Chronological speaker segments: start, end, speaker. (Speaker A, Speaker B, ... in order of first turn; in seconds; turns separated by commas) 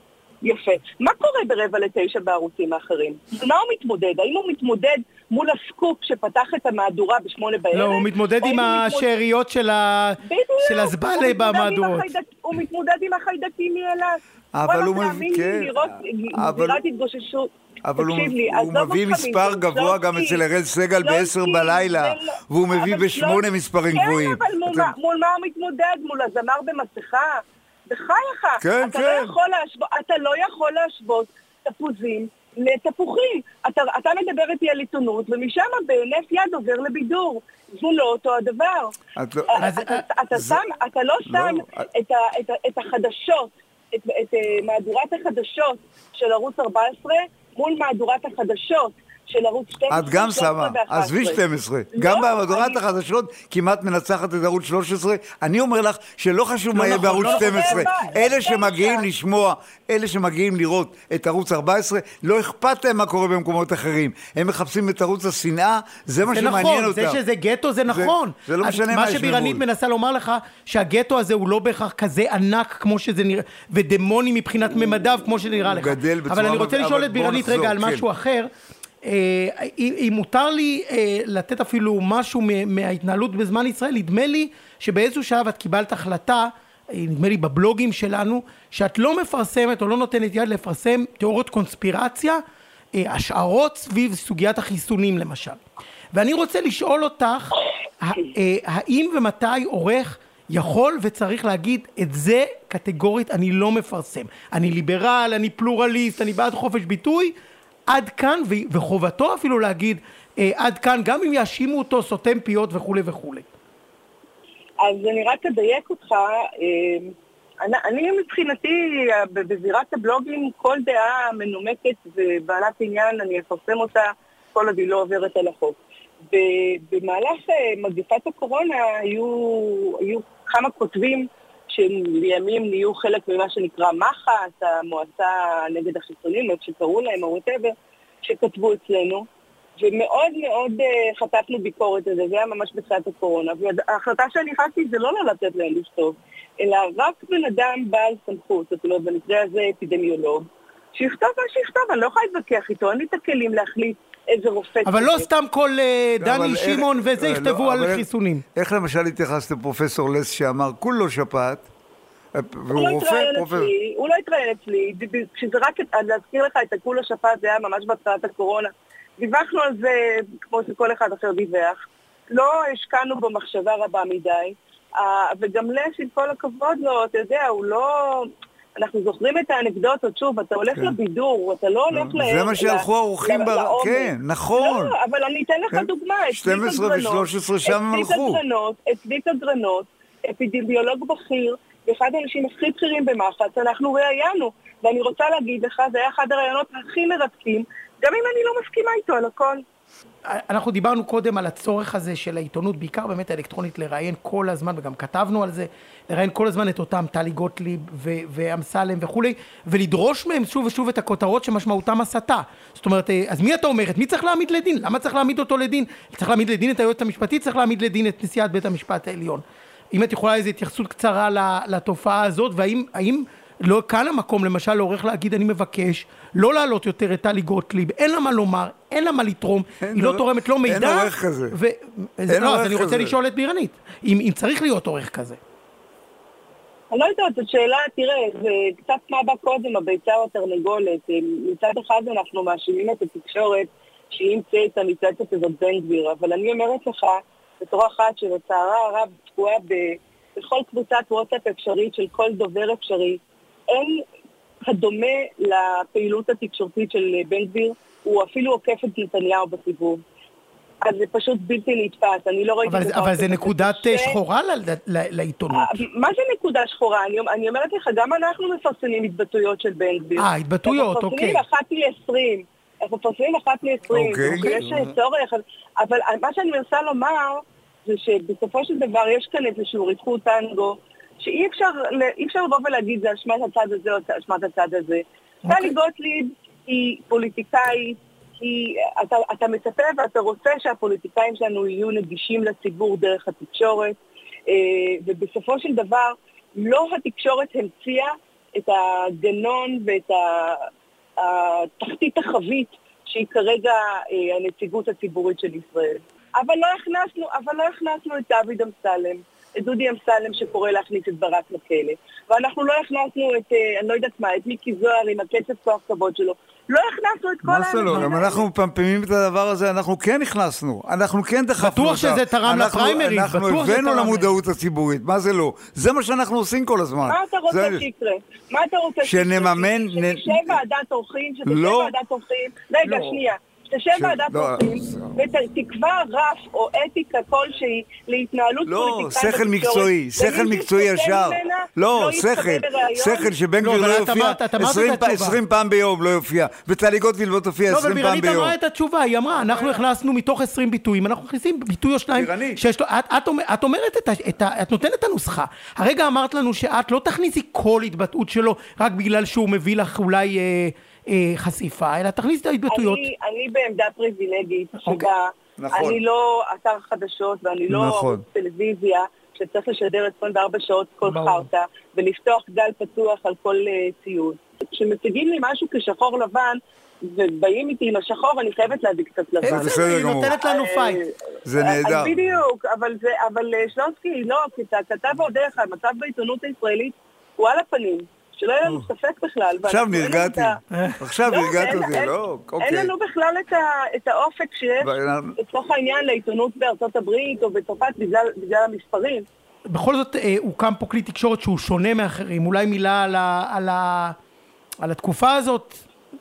Speaker A: 0.4-9.1, Speaker B: 7.7-12.1, Speaker A: 10.2-20.4, Speaker C: 14.5-16.8, Speaker C: 17.8-24.9, Speaker A: 21.0-38.9, Speaker C: 28.6-29.4, Speaker C: 39.2-39.7, Speaker A: 39.5-51.4, Speaker B: 39.6-40.0, Speaker C: 40.3-40.6, Speaker C: 41.3-41.9, Speaker C: 49.9-67.2, Speaker A: 51.9-52.8, Speaker B: 56.7-58.1, Speaker A: 56.9-59.1, Speaker B: 66.3-78.5, Speaker C: 67.9-69.6, Speaker C: 75.7-78.1, Speaker B: 79.0-92.4, Speaker B: 92.9-95.6, Speaker B: 96.1-107.3, Speaker B: 107.9-113.5, Speaker A: 114.8-125.8, Speaker A: 126.3-139.2, Speaker A: 139.8-155.3, Speaker B: 154.9-158.4, Speaker C: 156.2-161.7, Speaker C: 162.3-163.7, Speaker A: 162.7-171.8, Speaker A: 172.3-199.6, Speaker C: 181.9-184.9, Speaker C: 185.7-188.4, Speaker B: 200.3-235.4, Speaker C: 229.8-231.6, Speaker C: 232.3-233.2, Speaker A: 236.9-254.0, Speaker A: 254.7-260.0, Speaker A: 260.8-264.2, Speaker B: 262.6-265.8, Speaker A: 265.5-294.0, Speaker B: 270.2-271.4, Speaker C: 273.9-274.8, Speaker B: 274.3-274.9, Speaker B: 285.5-285.8, Speaker A: 294.5-300.7, Speaker A: 301.2-318.4, Speaker C: 317.4-327.9, Speaker B: 321.6-324.3, Speaker A: 327.1-343.3, Speaker C: 329.0-330.6, Speaker C: 331.5-331.9, Speaker B: 332.8-333.2, Speaker C: 333.9-335.1, Speaker C: 338.7-348.6, Speaker B: 343.6-345.4, Speaker B: 347.7-363.1, Speaker C: 352.1-352.6, Speaker A: 362.7-390.6, Speaker B: 364.8-365.1, Speaker C: 365.6-366.0, Speaker C: 367.7-368.2, Speaker B: 371.0-371.5, Speaker B: 379.4-381.0, Speaker C: 379.4-380.3, Speaker C: 381.4-382.2, Speaker C: 389.6-392.9, Speaker B: 390.7-391.0, Speaker A: 391.3-399.2, Speaker C: 394.8-395.4, Speaker B: 399.7-404.2, Speaker B: 404.8-405.8